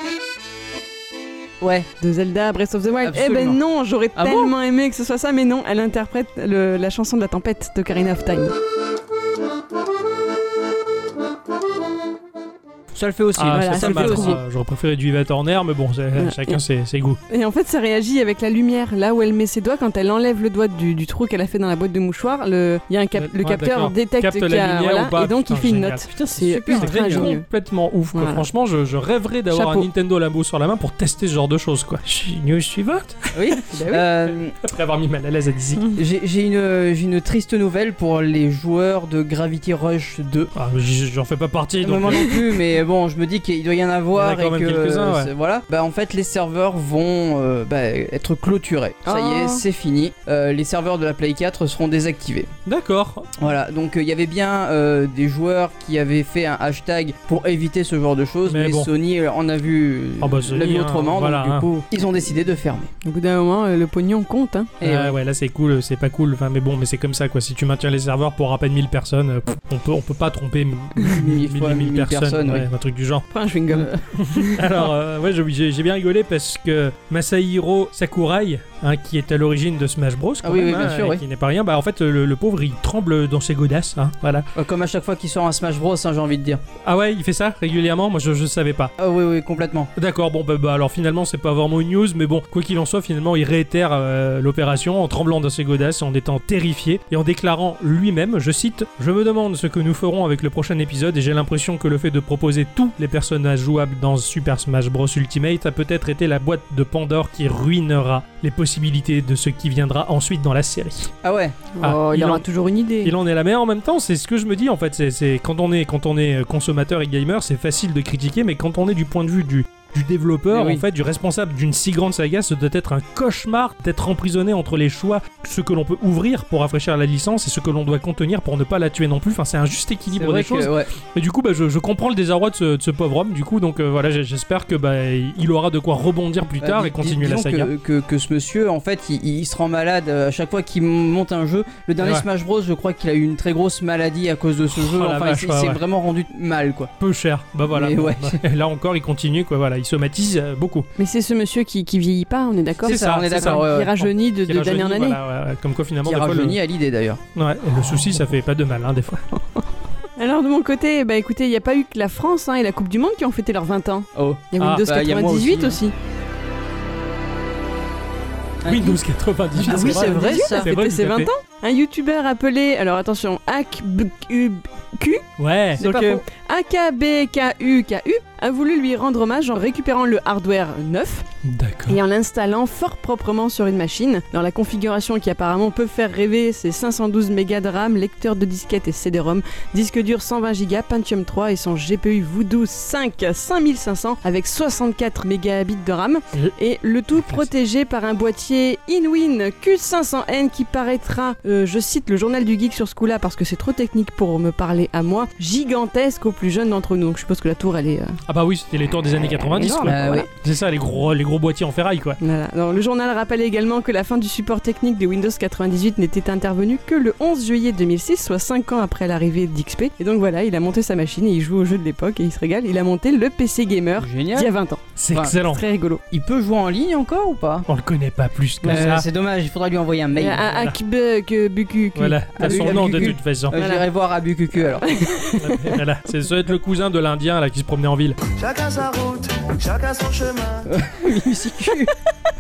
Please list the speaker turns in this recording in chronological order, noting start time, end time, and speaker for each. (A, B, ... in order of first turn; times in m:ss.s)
0:01.6-0:01.9 A
0:02.0-0:08.5 B
0:03.0-0:03.6 A
0:04.2-0:04.5 A
0:12.9-0:14.4 A
0:13.4-0:17.2 C
0:13.5-0:14.4 B
0:16.2-0:16.6 B
0:17.3-0:27.5 B
0:23.2-0:26.1 C
0:26.1-0:27.3 A
0:26.7-0:33.4 C
0:28.1-0:28.5 B
0:29.5-0:29.9 B
0:33.3-0:34.6 A
0:33.7-0:34.0 B
0:34.6-0:35.9 C
0:36.0-0:40.5 A
0:40.6-0:42.4 C
0:41.8-0:52.5 A
0:44.2-0:45.3 C
0:49.1-0:49.6 B
0:52.7-0:53.3 C
0:53.4-1:02.9 A
0:58.5-0:58.9 C
1:00.2-1:01.7 C
1:03.0-1:04.8 B
1:04.8-1:05.2 A
1:04.8-1:13.3 C
1:11.0-1:12.7 A
1:13.3-1:14.7 B
1:14.2-1:24.5 C
1:20.4-1:21.2 A
1:24.6-1:26.6 A
1:26.8-1:28.9 C
1:29.0-1:29.9 A
1:30.0-1:51.1 C
1:51.2-1:51.6 A
1:51.7-1:53.1 B
1:51.8-1:52.4 C
1:53.0-2:17.7 C
2:00.5-2:00.8 A
2:10.2-2:10.9 A
2:16.6-2:26.9 A
2:24.7-2:25.8 C
2:27.0-2:30.9 C
2:27.7-2:28.4 A
2:31.0-2:35.2 B
2:32.8-2:34.0 A
2:32.8-2:36.6 C
2:36.0-2:37.2 A
2:37.4-2:39.2 C
2:40.2-2:46.0 B
2:44.2-2:45.8 A
2:44.6-2:45.0 C
2:48.6-2:49.0 A
2:48.6-2:51.3 C
2:49.5-2:50.7 A
2:49.6-2:55.2 B
2:55.4-2:56.2 C
2:55.8-3:01.3 B
3:01.4-3:02.0 C
3:01.9-3:28.2 B
3:17.2-3:17.5 C
3:28.3-3:32.2 C
3:29.4-3:30.3 B
3:29.8-3:30.3 A
3:32.2-3:46.0 B
3:44.0-3:44.5 A
3:45.0-3:45.6 C
3:46.1-3:47.7 A
3:47.7-3:49.1 C
3:48.6-3:50.5 A
3:50.2-3:53.9 B
3:50.5-3:50.8 C
3:52.0-3:53.6 C
3:52.4-3:55.2 A
3:54.8-3:55.8 B
3:55.4-3:58.2 C
3:58.3-4:00.7 D
4:00.7-4:01.9 A